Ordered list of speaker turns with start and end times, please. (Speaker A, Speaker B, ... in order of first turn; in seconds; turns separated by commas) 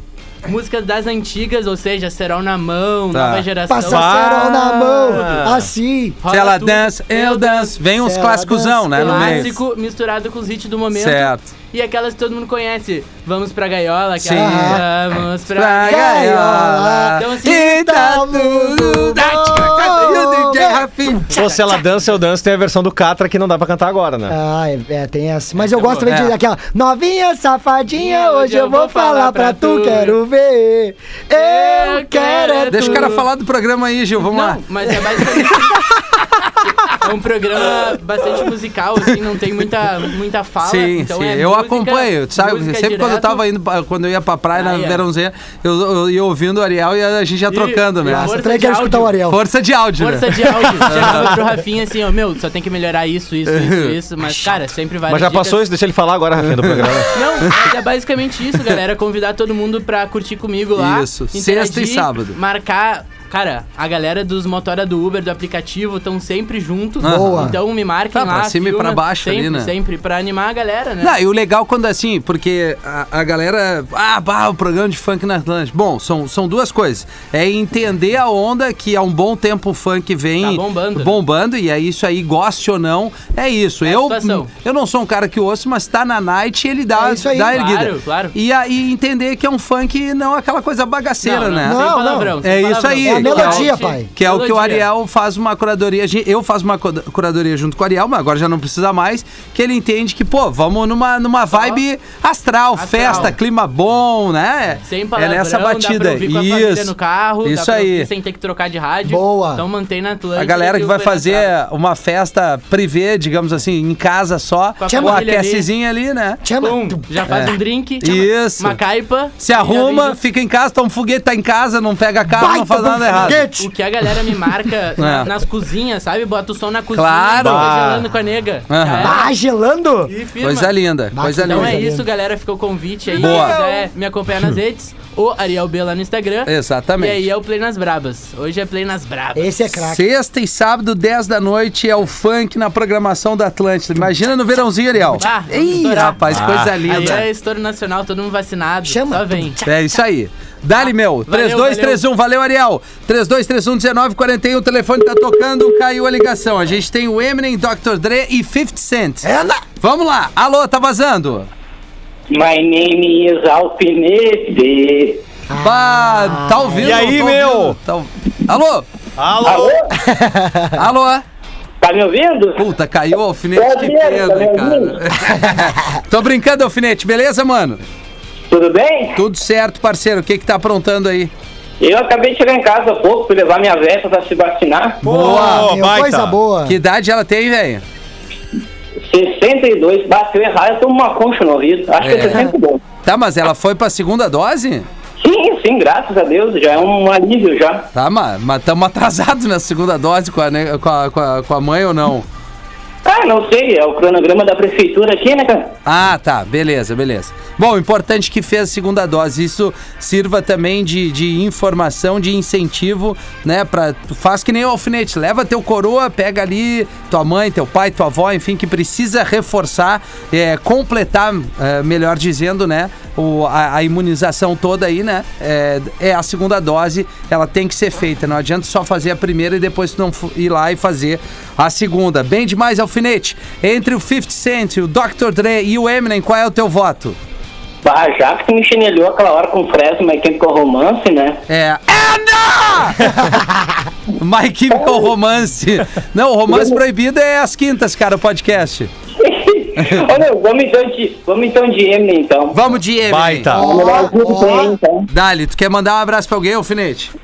Speaker A: 0.4-4.2, Speaker B: 3.1-3.5, Speaker C: 3.7-6.2, Speaker D: 3.9-5.7, Speaker A: 6.2-7.8, Speaker B: 6.3-9.5, Speaker C: 8.0-9.5, Speaker A: 8.9-16.4, Speaker B: 10.9-11.5, Speaker C: 14.2-14.8, Speaker B: 14.2-14.8, Speaker B: 15.5-21.4, Speaker C: 15.8-21.0, Speaker A: 17.2-17.6, Speaker A: 19.9-20.2, Speaker D: 21.3-24.3, Speaker A: 21.3-21.7, Speaker C: 24.3-33.2, Speaker A: 25.7-26.2, Speaker B: 25.9-26.3, Speaker A: 27.9-30.2, Speaker A: 31.3-33.3, Speaker B: 32.7-36.9, Speaker A: 34.2-35.8, Speaker A: 36.9-43.4, Speaker B: 40.6-48.4, Speaker A: 44.5-45.0, Speaker A: 47.5-49.2, Speaker C: 48.0-49.4, Speaker B: 49.3-51.4, Speaker A: 50.0-55.6, Speaker B: 53.5-54.0, Speaker C: 54.3-54.5, Speaker D: 55.1-57.1, Speaker B: 56.5-57.0, Speaker A: 57.1-71.2, Speaker B: 60.8-62.4, Speaker B: 67.0-67.6, Speaker C: 67.0-67.6, Speaker B: 68.1-69.7, Speaker B: 71.0-108.1, Speaker A: 80.4-81.2, Speaker A: 83.8-84.5, Speaker C: 87.0-87.6, Speaker A: 87.4-88.3, Speaker A: 91.2-94.9, Speaker C: 91.6-94.1, Speaker A: 101.5-101.8, Speaker A: 102.7-103.4, Speaker C: 103.0-103.3, Speaker A: 104.8-111.5, Speaker C: 109.0-109.6, Speaker B: 110.3-116.4, Speaker A: 114.8-115.7, Speaker C: 114.8-115.2, Speaker C: 116.4-117.1, Speaker A: 116.6-120.2, Speaker B: 117.3-118.8, Speaker B: 119.4-123.5, Speaker C: 122.3-123.7, Speaker A: 123.2-129.3, Speaker B: 125.0-125.3, Speaker B: 126.9-127.7, Speaker D: 127.4-128.1, Speaker B: 128.7-129.1, Speaker C: 129.0-130.1, Speaker A: 130.1-130.8, Speaker B: 130.4-131.9, Speaker C: 131.1-132.1, Speaker A: 131.3-139.6, Speaker B: 133.1-133.6, Speaker C: 133.1-133.8, Speaker B: 136.4-137.3, Speaker C: 139.3-140.0, Speaker B: 139.8-147.2, Speaker A: 145.1-149.6, Speaker D: 146.3-147.2, Speaker C: 148.8-150.0, Speaker B: 149.6-159.3, Speaker A: 150.8-152.0, Speaker C: 159.2-159.6, Speaker B: 159.8-161.5, Speaker E: 162.3-165.2, Speaker C: 165.5-167.1, Speaker B: 165.6-168.8, Speaker D: 166.8-167.8, Speaker D: 169.2-169.8, Speaker E: 169.4-169.8, Speaker C: 170.0-170.7, Speaker B: 170.7-171.2, Speaker E: 171.8-172.6, Speaker B: 172.6-177.8, Speaker E: 173.6-174.9, Speaker E: 178.5-179.2, Speaker B: 179.1-181.3, Speaker E: 181.8-185.0, Speaker B: 185.0-185.7, Speaker D: 185.0-186.4, Speaker C: 185.2-186.8, Speaker B: 186.6-187.8, Speaker E: 189.1-192.8, Speaker B: 192.0-192.5, Speaker B: 193.0-194.8, Speaker E: 195.2-197.8, Speaker B: 197.9-202.2, Speaker E: 203.0-205.7, Speaker B: 205.8-237.2, Speaker E: 237.8-241.4, Speaker B: 241.5-243.3, Speaker B: 244.2-248.9, Speaker E: 246.5-246.8, Speaker E: 249.2-252.6, Speaker B: 249.8-250.1, Speaker B: 252.5-253.5, Speaker D: 253.1-253.7, Speaker C: 253.5-254.8, Speaker E: 253.5-255.1, Speaker B: 255.1-257.1